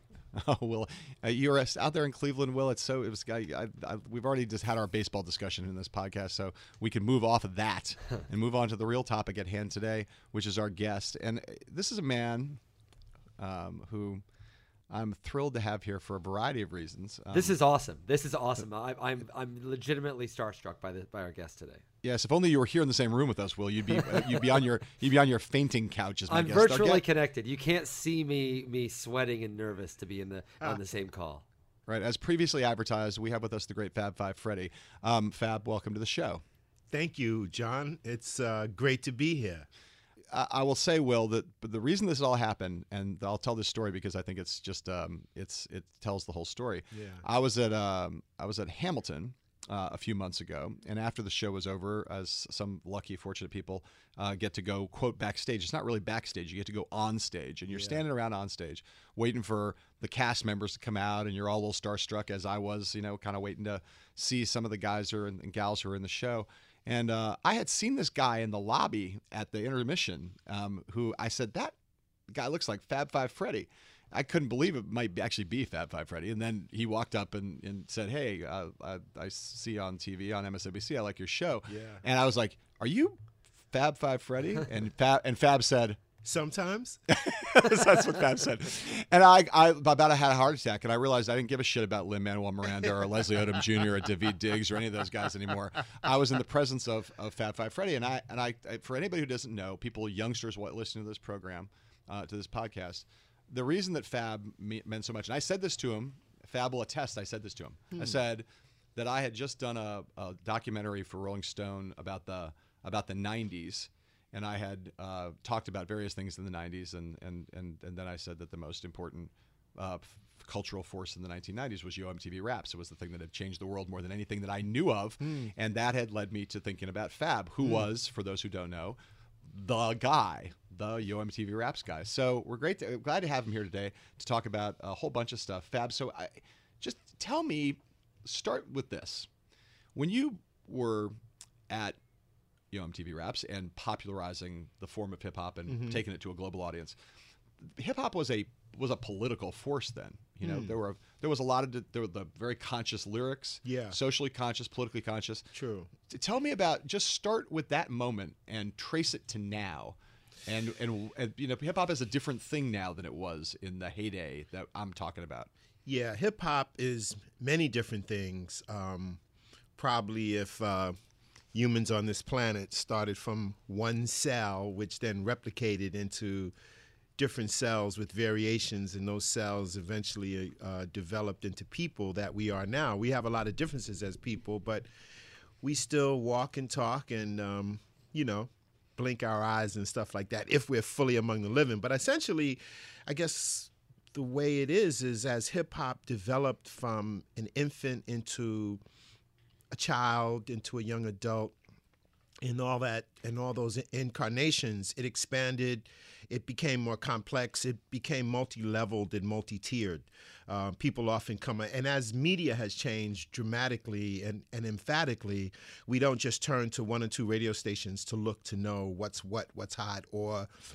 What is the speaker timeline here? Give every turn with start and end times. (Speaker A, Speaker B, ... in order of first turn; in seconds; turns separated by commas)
Speaker A: 0.3-12.6, Speaker A: 13.4-14.2, Speaker A: 14.9-17.6, Speaker B: 17.3-21.8, Speaker A: 22.0-27.1, Speaker B: 26.3-31.4, Speaker A: 31.9-36.4, Speaker C: 36.9-39.6, Speaker A: 40.3-71.7, Speaker C: 46.9-47.2, Speaker C: 57.7-58.0, Speaker A: 72.3-83.2, Speaker C: 81.7-82.0, Speaker A: 83.7-86.0, Speaker C: 86.2-87.0, Speaker A: 87.1-139.3, Speaker C: 87.6-87.9, Speaker C: 125.2-125.5, Speaker A: 139.9-141.1, Speaker A: 141.7-142.0, Speaker A: 142.7-146.9, Speaker C: 145.7-146.0, Speaker A: 147.6-155.4, Speaker C: 150.4-150.7, Speaker C: 153.6-154.0, Speaker C: 155.5-155.9, Speaker A: 156.1-165.5, Speaker C: 165.8-169.2, Speaker C: 169.8-170.9, Speaker C: 171.5-176.5, Speaker C: 177.2-184.9, Speaker C: 185.6-198.8, Speaker C: 199.7-201.5, Speaker C: 202.4-220.5